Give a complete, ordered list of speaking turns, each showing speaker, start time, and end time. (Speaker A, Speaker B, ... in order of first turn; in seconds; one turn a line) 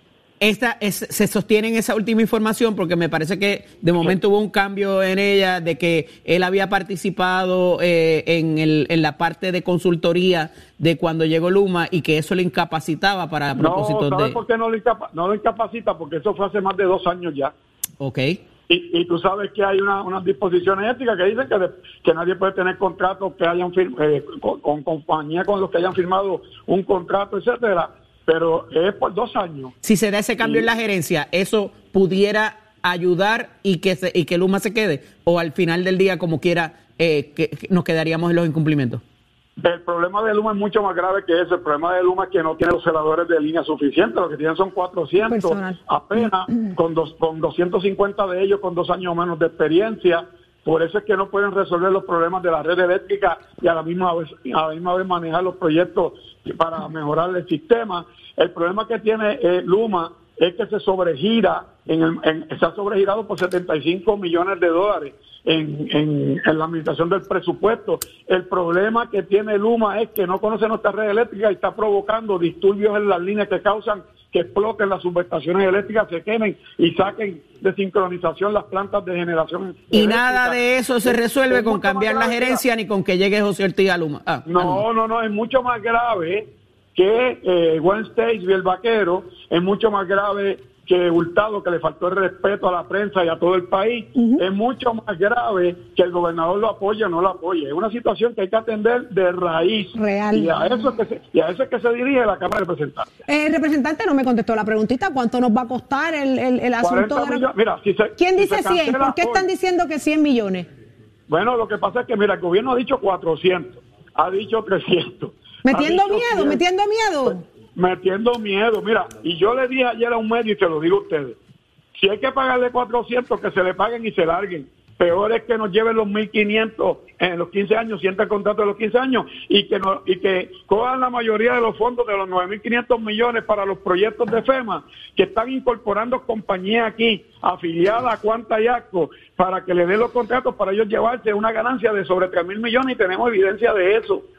Speaker A: 0.4-14.4
Speaker B: 13.6-17.5
Speaker A: 18.0-18.4
Speaker B: 18.7-29.7
Speaker A: 29.8-39.0
Speaker B: 39.6-82.6
Speaker C: 45.2-45.8
Speaker A: 79.9-84.8
Speaker B: 84.5-103.1
Speaker C: 94.2-94.4
Speaker C: 99.9-100.7
Speaker C: 103.3-107.5
Speaker B: 106.8-109.5
Speaker C: 108.2-110.7
Speaker B: 111.3-116.6
Speaker C: 115.6-117.4
Speaker B: 117.7-121.4
Speaker B: 121.9-144.2